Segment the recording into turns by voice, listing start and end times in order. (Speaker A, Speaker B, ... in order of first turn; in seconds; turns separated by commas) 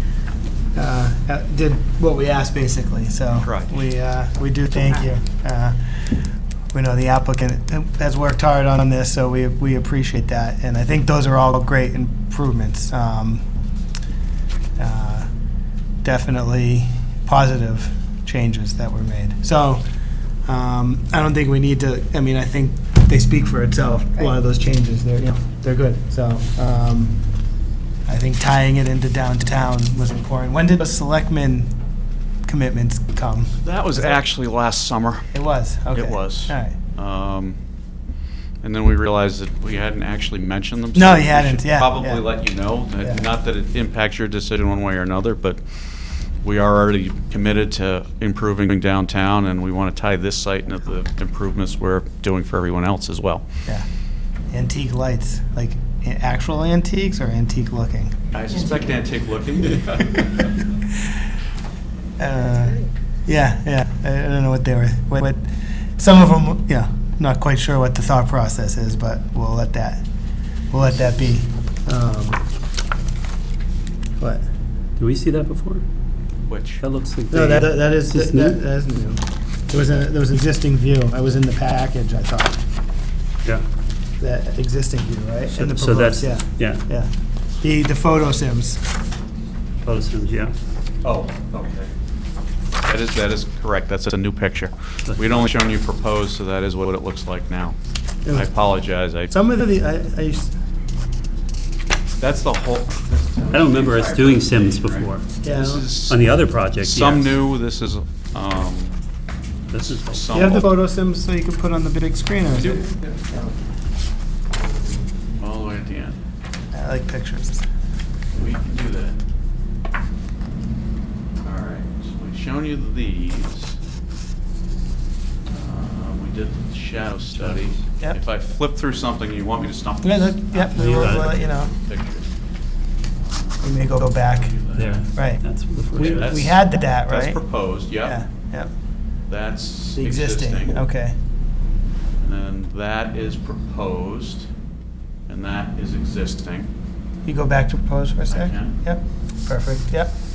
Speaker A: 0.7-6.0, Speaker B: 3.4-3.7, Speaker A: 6.7-13.4, Speaker A: 14.8-15.3, Speaker A: 16.0-19.8, Speaker A: 20.4-27.2, Speaker A: 28.1-31.7, Speaker A: 32.5-34.1, Speaker B: 33.6-35.3, Speaker A: 35.3-36.7, Speaker B: 35.9-37.6, Speaker B: 38.6-45.6, Speaker A: 40.9-42.3, Speaker B: 46.4-53.4, Speaker A: 54.5-58.1, Speaker B: 58.3-60.2, Speaker A: 62.2-65.4, Speaker A: 66.0-70.0, Speaker A: 70.7-72.4, Speaker A: 74.2-74.4, Speaker C: 75.0-75.8, Speaker B: 76.5-76.8, Speaker C: 76.8-78.6, Speaker A: 77.3-82.6, Speaker A: 84.2-87.1, Speaker C: 85.5-86.8, Speaker A: 87.6-88.8, Speaker C: 89.8-90.5, Speaker B: 91.0-91.9, Speaker B: 92.8-97.8, Speaker C: 95.1-95.4, Speaker B: 98.3-99.3, Speaker A: 99.3-100.5, Speaker B: 102.2-108.9, Speaker C: 103.5-105.3, Speaker A: 105.4-105.9, Speaker C: 106.1-107.3, Speaker C: 109.7-110.3, Speaker B: 109.8-110.7, Speaker A: 110.3-113.4, Speaker B: 112.5-113.2, Speaker B: 115.4-116.2, Speaker A: 116.7-117.6, Speaker B: 118.3-119.2, Speaker B: 121.4-123.8, Speaker B: 125.5-132.3, Speaker C: 127.3-127.6, Speaker A: 130.0-131.7, Speaker C: 130.7-131.3, Speaker B: 133.2-135.0, Speaker A: 133.6-134.5, Speaker C: 134.7-136.3, Speaker A: 135.1-138.7, Speaker B: 135.9-138.2, Speaker B: 139.3-140.8, Speaker A: 140.0-141.1, Speaker B: 142.2-144.5, Speaker B: 145.3-146.7, Speaker A: 147.2-150.1, Speaker B: 148.3-148.8